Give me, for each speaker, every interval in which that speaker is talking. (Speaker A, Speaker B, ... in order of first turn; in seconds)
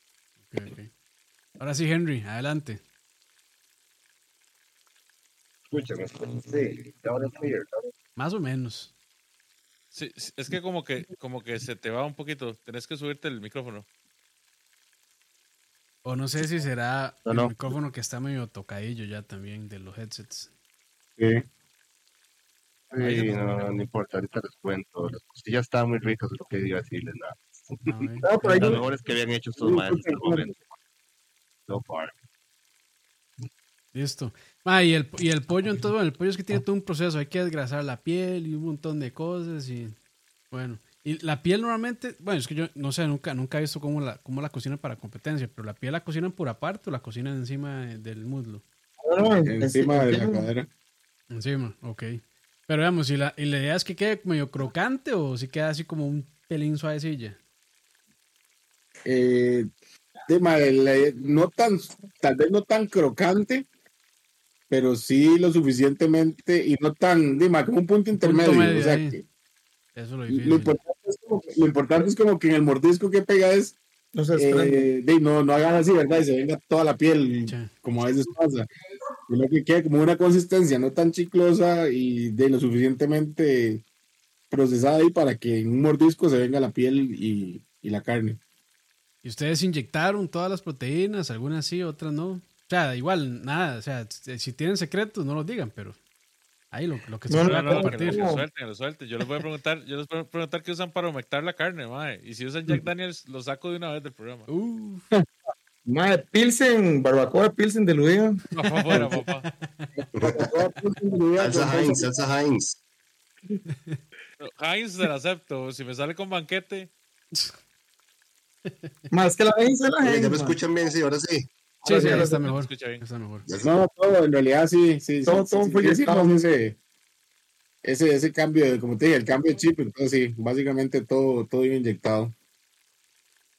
Speaker A: 0.5-0.9, 1.6-2.8, 8.2-8.9, 16.1-20.5, 23.1-23.7, 27.9-28.8, 33.9-40.0, 40.5-48.6, 51.3-57.4, 68.2-69.2, 70.0-70.8, 77.5-77.7, 89.2-96.0, 96.7-98.3, 104.5-105.0, 108.6-110.0, 113.7-114.0, 118.7-119.0, 121.8-123.5
Speaker B: 5.7-7.9, 17.3-17.5, 23.0-30.6, 31.7-32.1, 110.1-110.5, 111.4-112.8, 120.0-121.5, 123.5-123.8
Speaker C: 9.9-13.9, 97.5-104.5, 108.5-109.5, 114.4-116.9, 122.0-123.0
Speaker D: 21.2-21.4, 22.9-23.3, 29.6-30.5, 49.5-50.7, 59.1-59.7, 60.3-63.7, 64.7-69.2, 70.3-73.8, 74.3-78.7, 79.3-83.8, 84.5-88.4, 108.9-109.2, 110.2-112.1, 123.6-126.8, 127.8-132.3
Speaker E: 28.2-28.9, 49.0-50.5, 74.1-74.8, 97.3-98.5, 105.9-108.4, 119.1-120.6, 121.8-122.5, 125.2-126.4